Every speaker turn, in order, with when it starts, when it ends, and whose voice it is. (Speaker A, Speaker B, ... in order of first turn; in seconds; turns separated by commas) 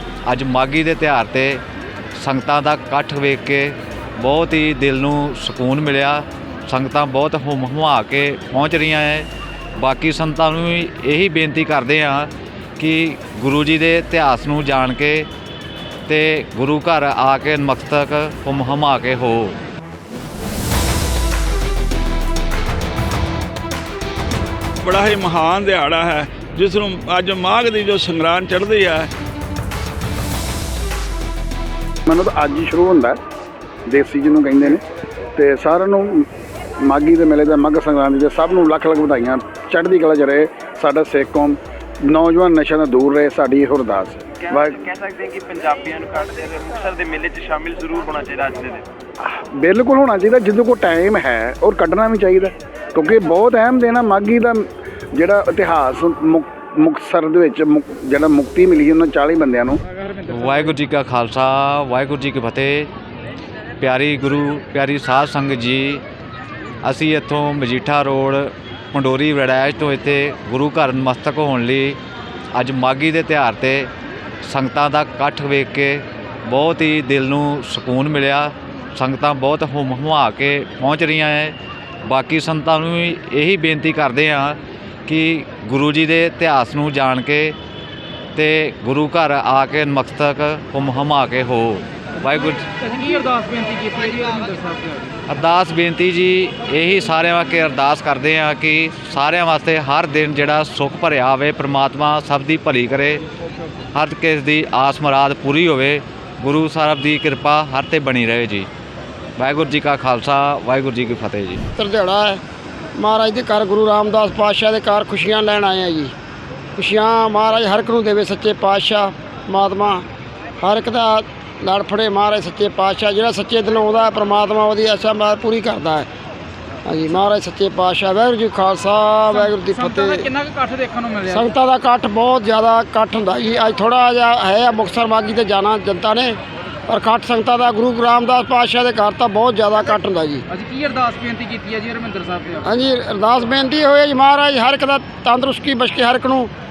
Speaker A: 0.3-1.6, Speaker A: 2.2-15.3, Speaker A: 16.1-19.6, Speaker B: 24.8-29.1, Speaker C: 32.1-33.2, Speaker C: 33.9-34.8, Speaker C: 35.4-36.3, Speaker C: 36.8-44.9, Speaker D: 44.5-48.9, Speaker C: 49.2-59.8, Speaker A: 60.2-62.9, Speaker A: 63.8-66.0, Speaker A: 66.8-72.0, Speaker A: 72.5-73.9, Speaker A: 74.4-87.6, Speaker A: 88.3-92.7, Speaker E: 92.8-95.1, Speaker A: 95.3-103.2, Speaker A: 103.9-108.7, Speaker A: 109.4-111.6, Speaker F: 111.7-112.4, Speaker F: 113.0-116.1, Speaker F: 116.8-120.1, Speaker F: 120.6-126.1, Speaker F: 126.8-130.3, Speaker E: 129.4-131.5, Speaker F: 131.3-140.5, Speaker E: 140.5-142.6, Speaker F: 142.6-146.5